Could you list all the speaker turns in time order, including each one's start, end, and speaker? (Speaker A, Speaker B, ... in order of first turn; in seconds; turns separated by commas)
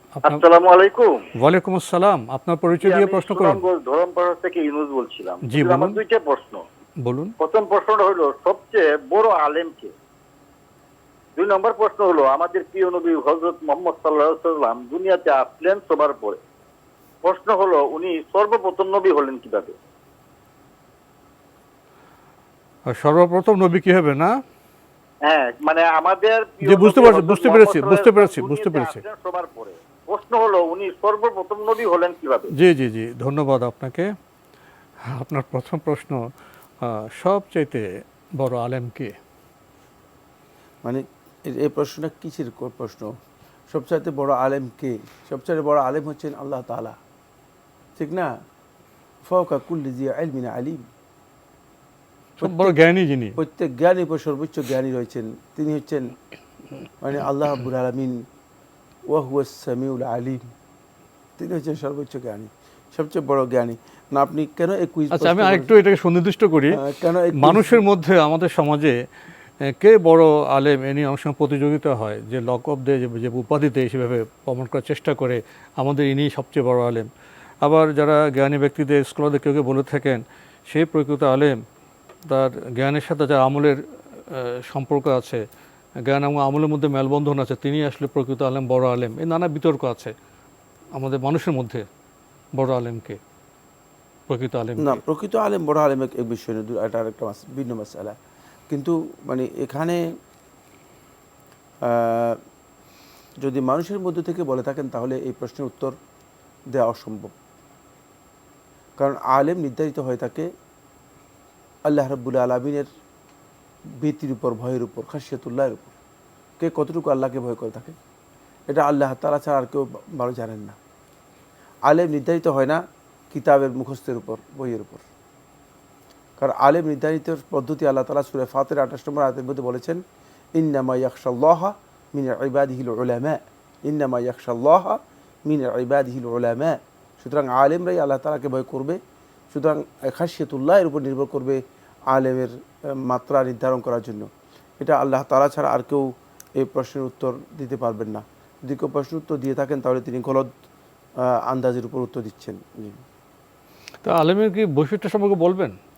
Speaker A: 0.2-1.2, Speaker B: 1.4-3.6, Speaker A: 2.8-6.6, Speaker B: 5.5-6.0, Speaker B: 7.0-7.3, Speaker A: 7.4-9.9, Speaker A: 11.4-16.4, Speaker A: 17.2-19.7, Speaker B: 22.9-24.3, Speaker A: 25.2-32.5, Speaker B: 26.6-29.0, Speaker B: 32.5-34.1, Speaker B: 35.0-36.2, Speaker B: 36.8-39.1, Speaker C: 40.8-43.1, Speaker C: 43.7-47.0, Speaker C: 48.0-48.3, Speaker C: 49.2-50.8, Speaker C: 52.4-52.8, Speaker B: 52.4-53.4, Speaker C: 53.4-56.1, Speaker C: 57.0-58.2, Speaker C: 59.1-60.4, Speaker C: 61.4-65.7, Speaker B: 65.1-66.8, Speaker C: 66.7-67.8, Speaker B: 67.3-68.9, Speaker B: 69.7-77.1, Speaker B: 77.6-81.6, Speaker B: 82.3-83.8, Speaker B: 84.3-85.4, Speaker B: 86.1-90.1, Speaker B: 91.0-91.8, Speaker B: 92.6-93.2, Speaker B: 94.3-95.0, Speaker C: 94.8-98.2, Speaker C: 98.7-100.0, Speaker C: 101.8-102.4, Speaker C: 103.4-105.9, Speaker C: 106.7-107.3, Speaker C: 109.0-110.5, Speaker C: 111.9-112.9, Speaker C: 114.0-115.9, Speaker C: 116.6-118.0, Speaker C: 118.7-120.8, Speaker C: 121.9-125.0, Speaker C: 126.4-130.0, Speaker C: 130.6-139.0, Speaker C: 139.5-141.6, Speaker C: 142.1-142.5, Speaker C: 143.0-144.3, Speaker C: 144.8-150.5, Speaker C: 151.2-153.0, Speaker B: 154.0-155.7